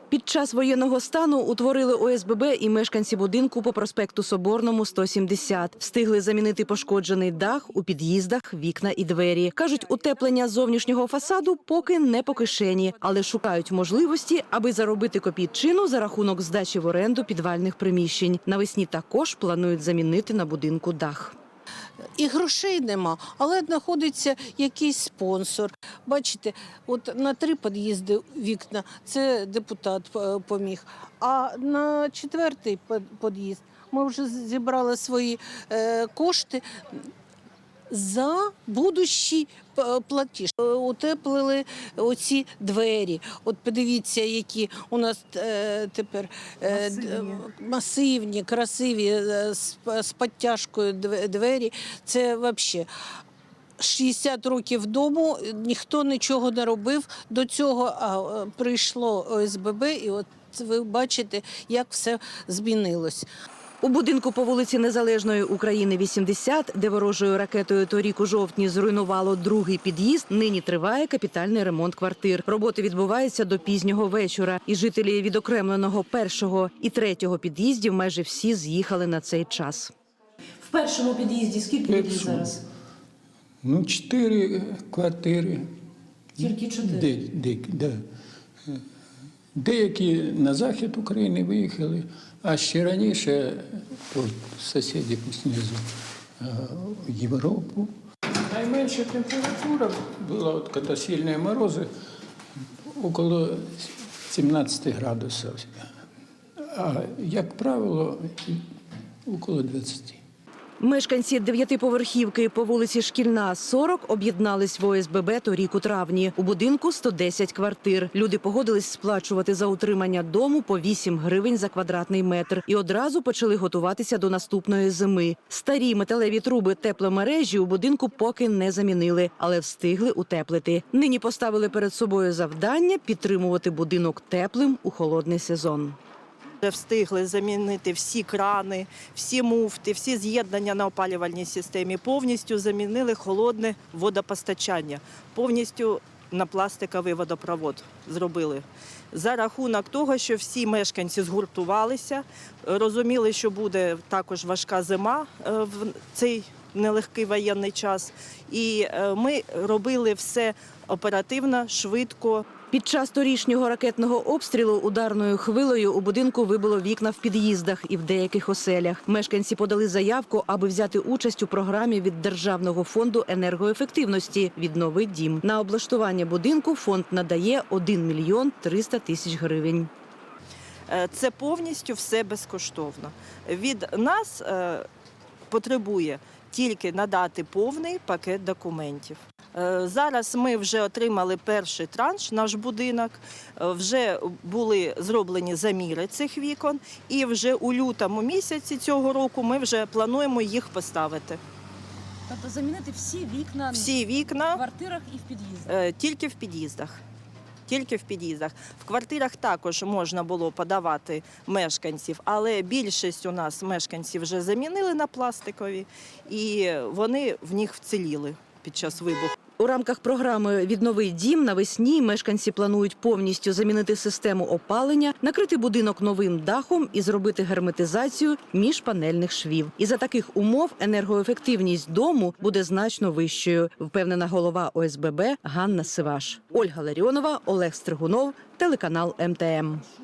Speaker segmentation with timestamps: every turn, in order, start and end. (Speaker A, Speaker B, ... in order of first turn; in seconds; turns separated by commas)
Speaker A: 0.1-21.3, Speaker B: 22.1-37.1, Speaker B: 37.9-52.9, Speaker B: 53.8-63.3, Speaker A: 63.8-79.9, Speaker C: 80.6-82.6, Speaker D: 81.9-82.5, Speaker D: 83.6-85.7, Speaker D: 86.4-88.0, Speaker C: 86.4-87.0, Speaker D: 89.5-95.8, Speaker D: 96.4-101.9, Speaker D: 102.9-105.9, Speaker D: 106.6-108.6, Speaker D: 109.3-110.2, Speaker A: 110.8-136.0, Speaker E: 136.6-162.5, Speaker A: 162.7-179.9, Speaker E: 180.9-184.9, Speaker E: 185.5-201.4, Speaker C: 202.3-203.9, Speaker E: 203.7-204.6, Speaker C: 204.5-205.7, Speaker E: 205.7-207.0, Speaker E: 207.7-219.3, Speaker A: 219.6-239.8